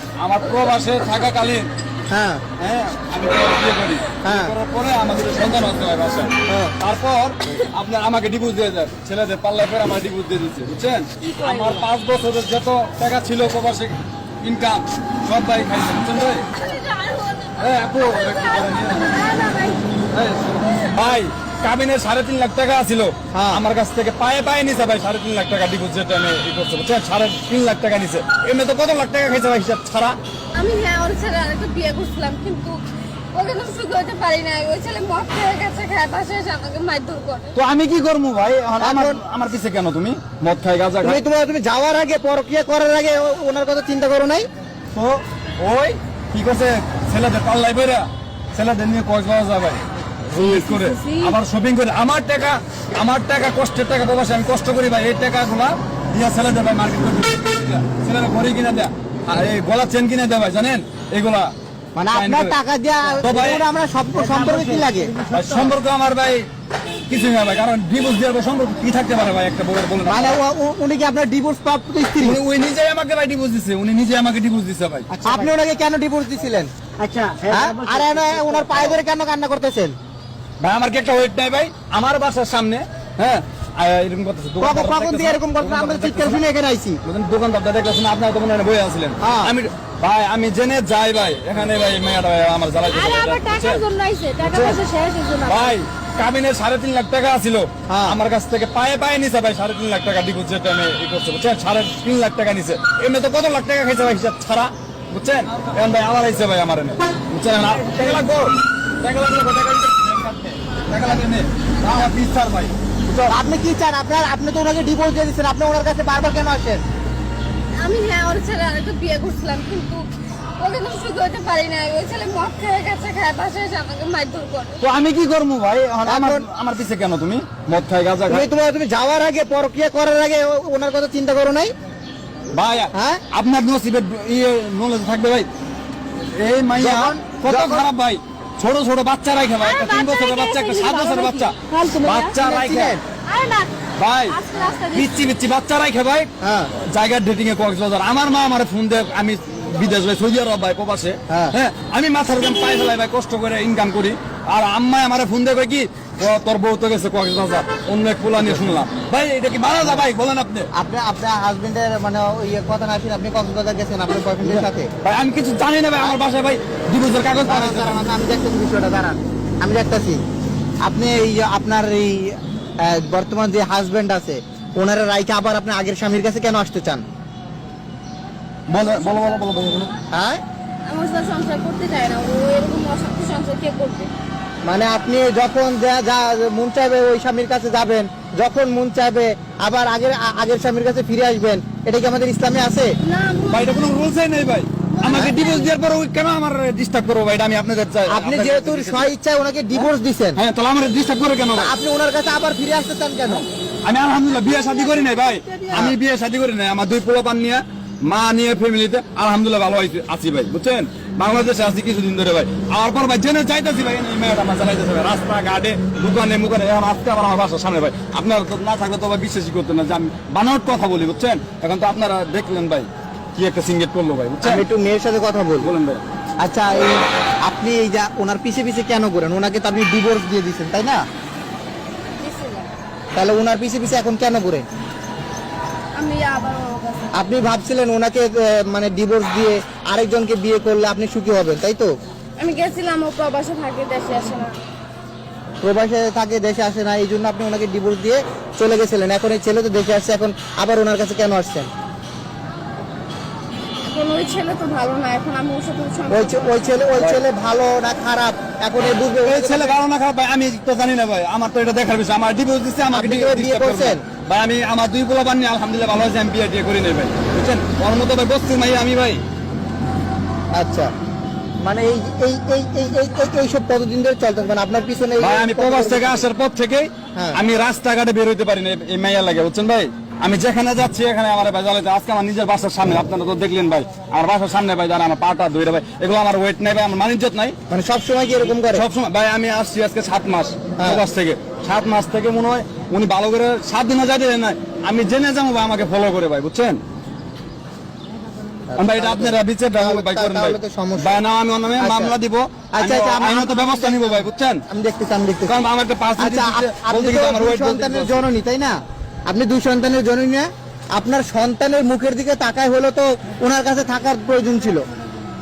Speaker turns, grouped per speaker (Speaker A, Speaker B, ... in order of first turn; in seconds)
Speaker A: 0.2-1.7, 2.6-16.5, 17.6-19.1, 20.1-30.2, 37.5-41.2, 45.0-49.8, 50.4-61.5, 62.1-62.5, 63.2-63.6, 65.3-66.5, 67.1-70.3, 72.2-75.1, 80.6-86.4, 87.0-93.8, 94.4-94.8, 95.5-113.3, 124.8-128.5, 132.5-135.5, 136.3-143.0, 144.0-146.3, 146.8-160.7, 164.4-168.0, 178.7-179.9, 193.5-199.1, 199.7-201.7, 203.8-224.6, 225.6-226.0, 257.0-257.2, 259.2-269.2, 275.2-287.6, 288.7-296.8, 298.8-304.6, 305.5-308.2
Speaker B: 2.1-2.4, 4.2-4.5, 6.5-6.7, 23.3-23.6, 38.8-39.2, 41.0-44.5, 62.0-65.1, 70.1-72.4, 75.2-76.7, 77.5-80.0, 84.6-87.0, 89.2-89.5, 97.9-98.2, 113.3-116.8, 126.0-126.5, 128.3-131.7, 132.9-133.2, 136.8-137.9, 142.3-143.0, 146.4-146.7, 151.3-151.6, 158.3-158.7, 160.7-164.9, 167.4-170.2, 170.8-177.0, 180.1-180.4, 184.6-192.9, 195.1-195.4, 198.1-200.4, 201.6-203.5, 205.7-206.0, 224.4-225.7, 226.4-231.1, 233.2-234.7, 237.1-241.9, 245.6-251.7, 256.1-259.8, 262.9-264.0, 270.5-270.9, 271.6-276.3, 287.7-288.8, 290.8-291.0, 298.7-301.2, 301.8-302.2, 302.7-305.6, 306.2-314.9
Speaker C: 11.3-11.9, 16.6-20.0, 30.6-32.8, 33.3-37.5, 50.6-51.3, 92.9-95.8, 117.8-120.1, 120.6-124.8, 139.6-142.3, 143.3-143.7, 144.3-145.2, 178.9-179.3, 180.8-184.1, 193.0-193.8, 194.9-195.7, 204.5-205.7, 232.2-232.7, 235.9-237.2, 242.4-244.6, 253.8-257.0
Speaker D: 50.4-50.6, 64.2-65.7, 75.1-75.5, 77.0-79.0